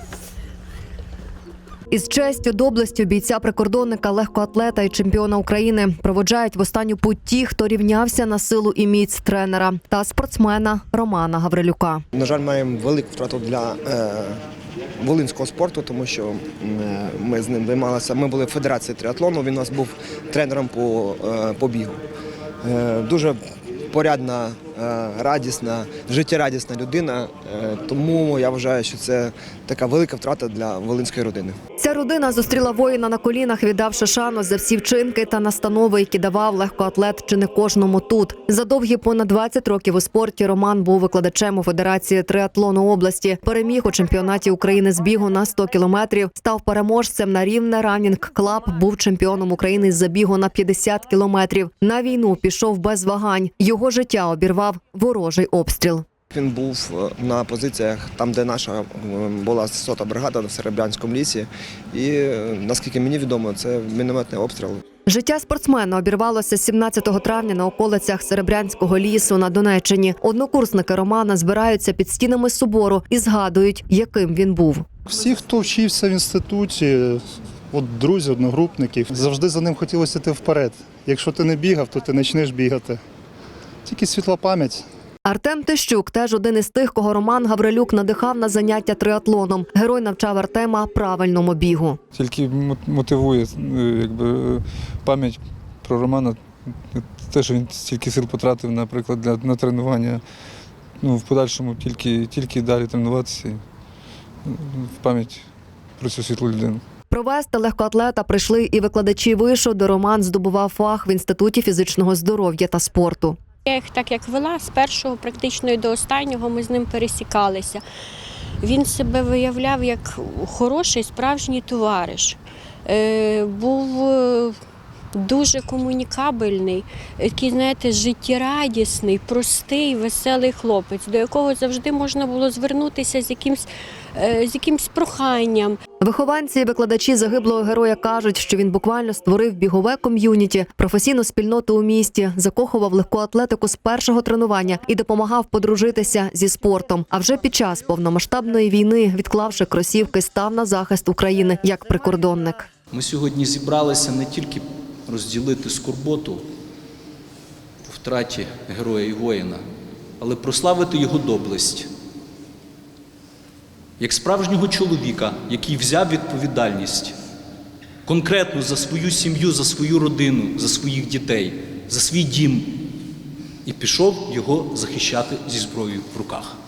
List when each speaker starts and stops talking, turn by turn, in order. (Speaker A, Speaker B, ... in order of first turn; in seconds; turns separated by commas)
Speaker A: 1.9-12.0, Speaker B: 12.1-14.4, Speaker B: 15.0-22.0, Speaker B: 22.6-31.6, Speaker A: 31.8-56.0, Speaker B: 56.3-64.8, Speaker A: 65.1-74.8, Speaker C: 75.1-83.0, Speaker C: 83.8-84.8, Speaker A: 85.3-92.0, Speaker D: 92.1-100.2, Speaker D: 101.0-103.6, Speaker D: 104.5-105.5, Speaker D: 106.0-106.8, Speaker A: 107.1-113.4, Speaker E: 113.7-117.8, Speaker E: 118.6-124.6, Speaker E: 125.2-135.8, Speaker A: 136.0-152.7, Speaker F: 152.9-156.5, Speaker F: 157.8-159.6, Speaker F: 160.2-161.9, Speaker F: 164.0-167.2, Speaker F: 168.1-172.9, Speaker F: 173.7-176.6